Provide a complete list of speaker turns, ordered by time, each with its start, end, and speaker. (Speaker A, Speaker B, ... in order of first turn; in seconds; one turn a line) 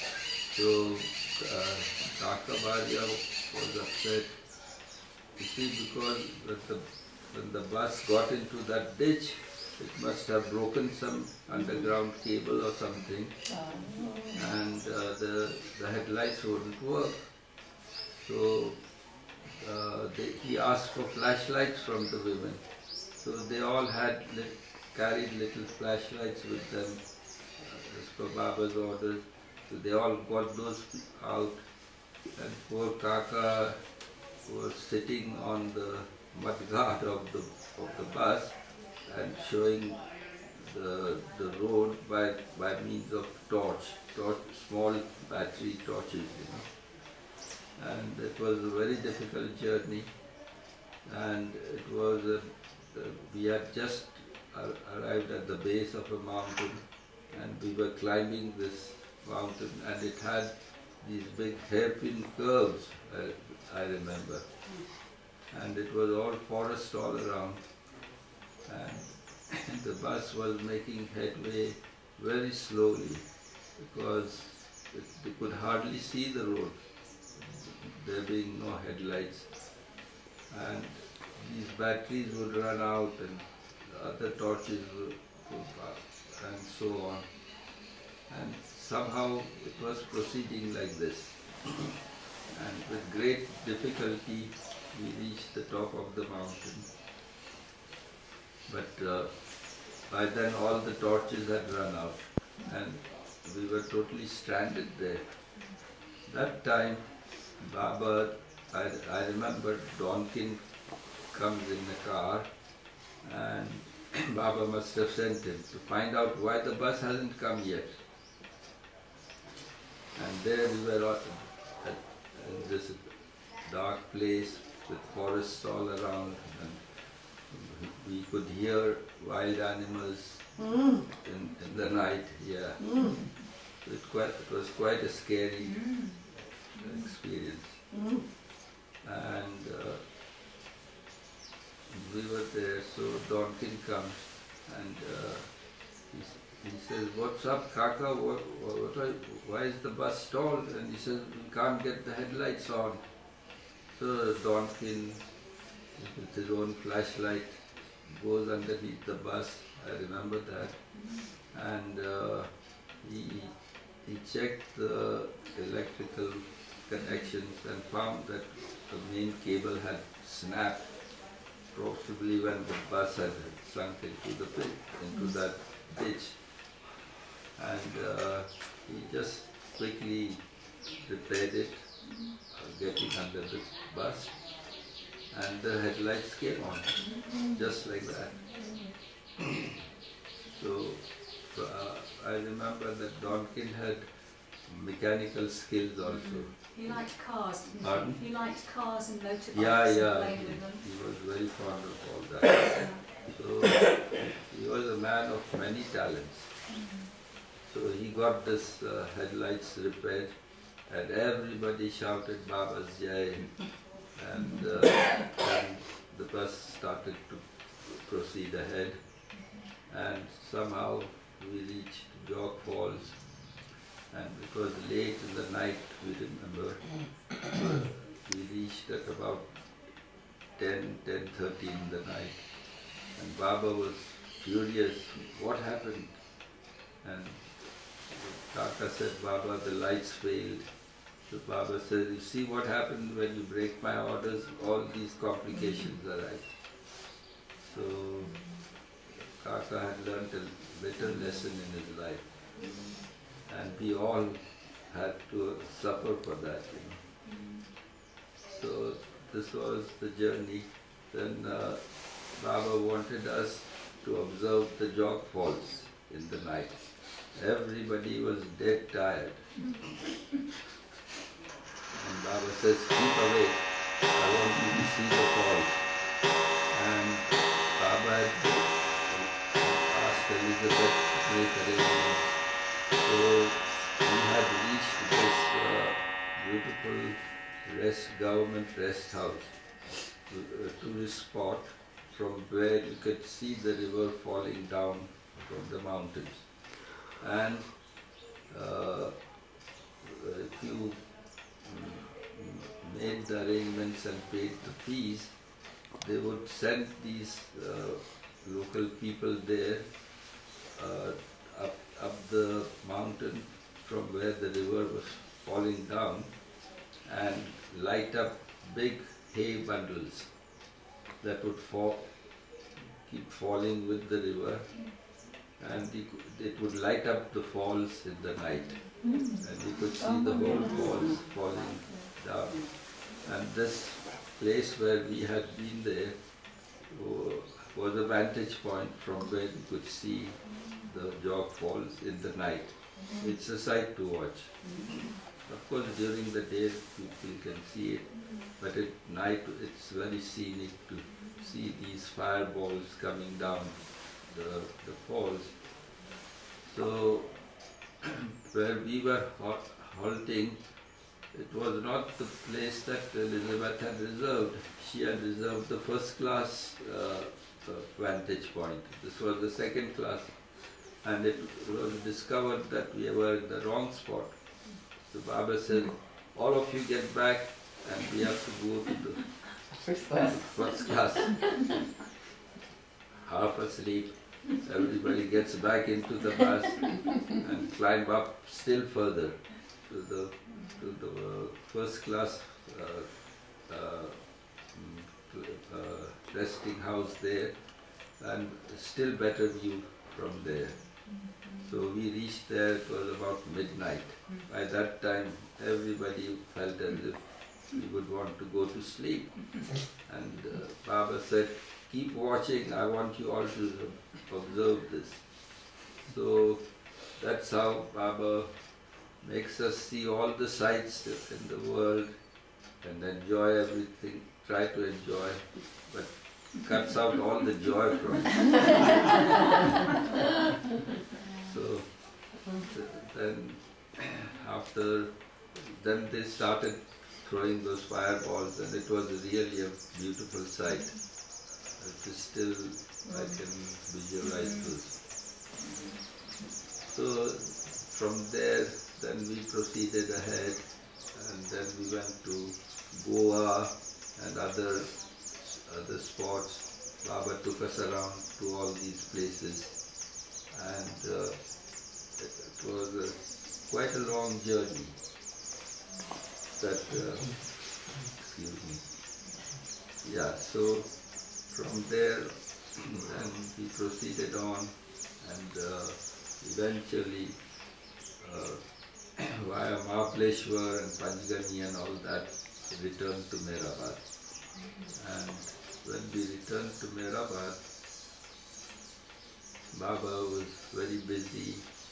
Speaker A: 0.5-4.5
Speaker A: 5.4-13.6
Speaker B: 13.5-14.4
Speaker A: 14.3-17.4
Speaker A: 18.2-18.9
Speaker A: 19.6-31.7
Speaker A: 32.3-33.8
Speaker A: 34.4-46.9
Speaker A: 47.8-50.2
Speaker A: 51.0-67.7
Speaker A: 68.7-76.8
Speaker A: 77.4-79.5
Speaker A: 80.5-87.4
Speaker A: 88.3-96.9
Speaker A: 98.7-105.6
Speaker A: 106.2-112.5
Speaker A: 113.2-118.0
Speaker A: 120.2-137.9
Speaker C: 135.7-137.1
Speaker A: 139.0-140.0
Speaker A: 141.9-153.1
Speaker A: 153.9-155.4
Speaker A: 155.9-176.8
Speaker C: 160.9-161.3
Speaker C: 167.0-167.3
Speaker A: 177.6-184.6
Speaker C: 182.0-182.3
Speaker A: 185.3-188.4
Speaker C: 187.0-187.5
Speaker A: 190.5-197.1
Speaker C: 196.1-200.8
Speaker A: 197.8-198.2
Speaker A: 199.5-206.6
Speaker C: 202.7-203.1
Speaker C: 206.7-207.1
Speaker A: 207.7-223.5
Speaker C: 219.3-219.7
Speaker A: 224.1-229.7
Speaker A: 230.5-236.3
Speaker A: 237.0-247.0
Speaker A: 247.6-248.4
Speaker C: 248.2-248.5
Speaker A: 249.2-252.5
Speaker C: 252.6-253.1
Speaker A: 253.4-257.0
Speaker C: 257.2-257.7
Speaker A: 258.5-269.7
Speaker A: 271.9-276.2
Speaker A: 276.7-298.0
Speaker A: 298.5-299.3
Speaker A: 300.0-310.2
Speaker A: 310.7-320.3
Speaker A: 321.2-322.2
Speaker A: 322.9-325.1
Speaker A: 325.6-355.7
Speaker C: 329.0-329.4
Speaker B: 330.0-331.0
Speaker C: 340.5-340.8
Speaker C: 348.2-348.4
Speaker A: 356.6-360.6
Speaker A: 361.3-379.5
Speaker B: 379.7-380.7
Speaker A: 380.3-381.6
Speaker A: 383.2-428.8
Speaker C: 401.1-401.8
Speaker C: 431.2-431.6
Speaker A: 431.3-445.0
Speaker C: 440.7-441.0
Speaker C: 444.3-444.7
Speaker C: 445.6-446.0
Speaker A: 446.9-459.9
Speaker A: 460.5-465.0
Speaker A: 466.6-469.2
Speaker A: 470.0-477.4
Speaker A: 478.2-484.2
Speaker C: 484.5-484.9
Speaker A: 484.9-487.6
Speaker A: 489.7-491.7